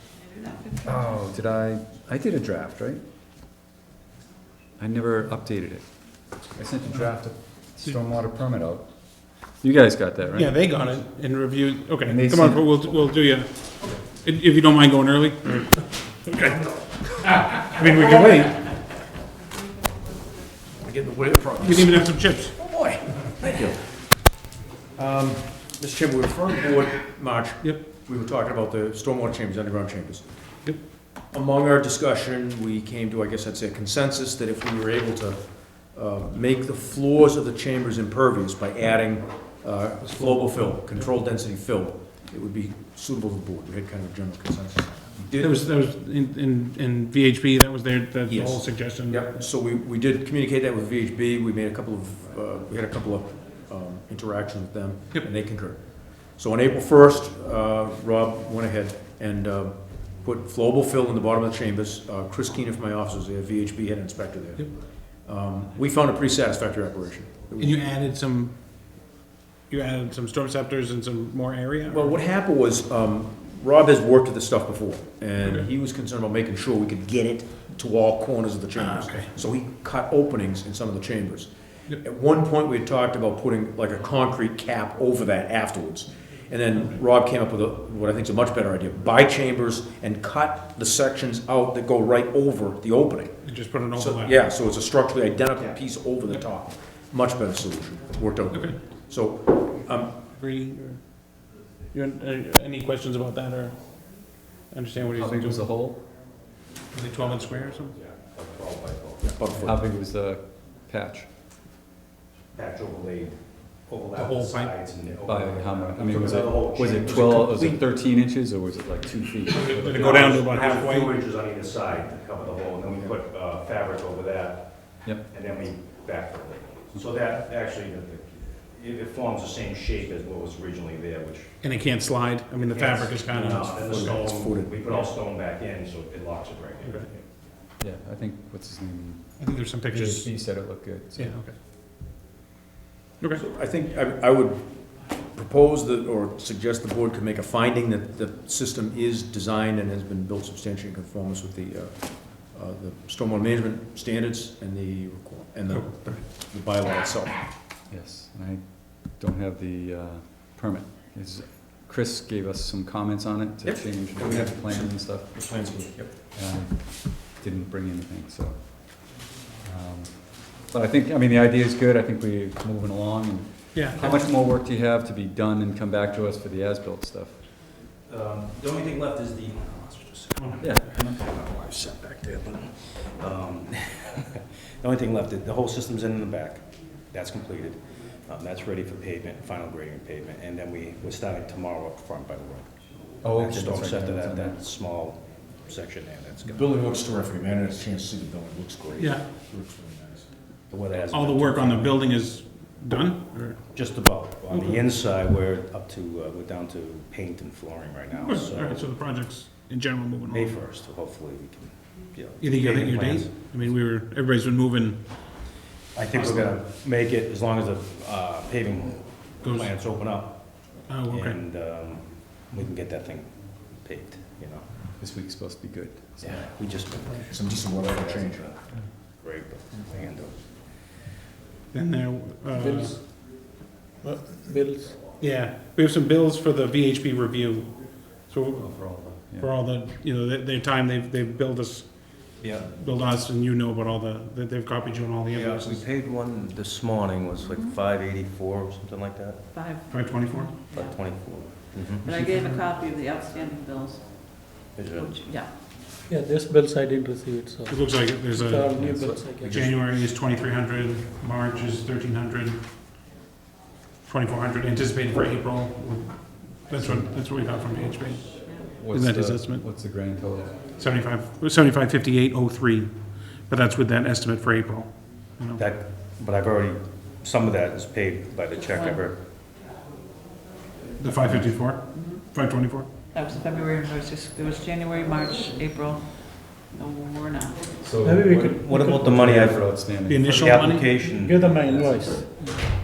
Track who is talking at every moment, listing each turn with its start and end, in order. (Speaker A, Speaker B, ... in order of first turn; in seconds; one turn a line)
Speaker A: 0.2-1.2
Speaker B: 0.8-3.0
Speaker B: 4.8-5.9
Speaker B: 6.5-8.9
Speaker B: 9.5-10.6
Speaker C: 10.4-13.5
Speaker B: 12.0-12.8
Speaker C: 14.1-16.6
Speaker C: 17.4-18.6
Speaker D: 17.6-18.4
Speaker D: 20.8-23.8
Speaker C: 21.6-22.6
Speaker D: 24.9-30.2
Speaker D: 31.3-45.6
Speaker C: 40.0-41.0
Speaker C: 45.4-49.4
Speaker D: 48.3-67.8
Speaker C: 67.6-68.8
Speaker C: 69.7-72.1
Speaker D: 71.9-93.4
Speaker C: 75.4-75.7
Speaker C: 78.8-79.3
Speaker C: 93.4-94.4
Speaker D: 93.9-100.2
Speaker C: 98.5-98.8
Speaker C: 100.3-101.2
Speaker C: 101.9-105.6
Speaker B: 105.0-106.0
Speaker C: 106.9-108.0
Speaker E: 108.0-109.4
Speaker D: 109.2-109.8
Speaker B: 109.6-111.3
Speaker E: 112.5-117.8
Speaker C: 114.1-114.7
Speaker B: 115.2-120.4
Speaker C: 119.5-121.2
Speaker E: 119.8-131.5
Speaker C: 131.6-134.3
Speaker E: 132.7-137.2
Speaker D: 133.3-135.1
Speaker B: 137.8-141.5
Speaker C: 139.4-140.6
Speaker C: 141.2-141.5
Speaker D: 143.3-157.5
Speaker C: 155.7-156.2
Speaker B: 157.9-177.4
Speaker D: 163.6-166.2
Speaker C: 173.7-174.2
Speaker E: 178.1-196.8
Speaker B: 180.6-181.5
Speaker B: 193.2-194.6
Speaker D: 196.5-200.3
Speaker C: 199.0-199.2
Speaker E: 200.7-202.0
Speaker C: 201.1-203.6
Speaker E: 203.7-208.8
Speaker C: 208.1-210.6
Speaker E: 210.3-213.3
Speaker C: 212.4-215.3
Speaker E: 215.9-224.7
Speaker C: 216.1-216.6
Speaker C: 219.4-219.7
Speaker C: 220.9-221.4
Speaker B: 225.0-226.5
Speaker E: 226.2-230.7
Speaker D: 227.2-228.5
Speaker C: 231.7-232.9
Speaker F: 232.6-233.0
Speaker F: 234.0-235.0
Speaker C: 235.2-245.8
Speaker B: 238.6-239.5
Speaker E: 242.4-242.7
Speaker E: 245.3-249.5
Speaker A: 247.4-247.8
Speaker A: 249.5-251.0
Speaker C: 249.9-250.5
Speaker E: 250.7-252.2
Speaker A: 252.0-255.5
Speaker C: 252.2-252.6
Speaker E: 254.8-255.2
Speaker F: 256.1-259.6
Speaker C: 257.7-262.6
Speaker B: 258.8-259.8
Speaker C: 264.0-269.7
Speaker B: 266.8-267.1
Speaker B: 268.8-270.6
Speaker C: 270.8-275.6
Speaker E: 275.6-279.2
Speaker A: 278.6-279.0
Speaker C: 281.0-282.9
Speaker A: 281.9-282.2
Speaker A: 283.1-287.8
Speaker B: 287.8-290.7
Speaker F: 288.0-289.1
Speaker E: 288.6-292.4
Speaker C: 290.1-290.9
Speaker F: 291.2-292.6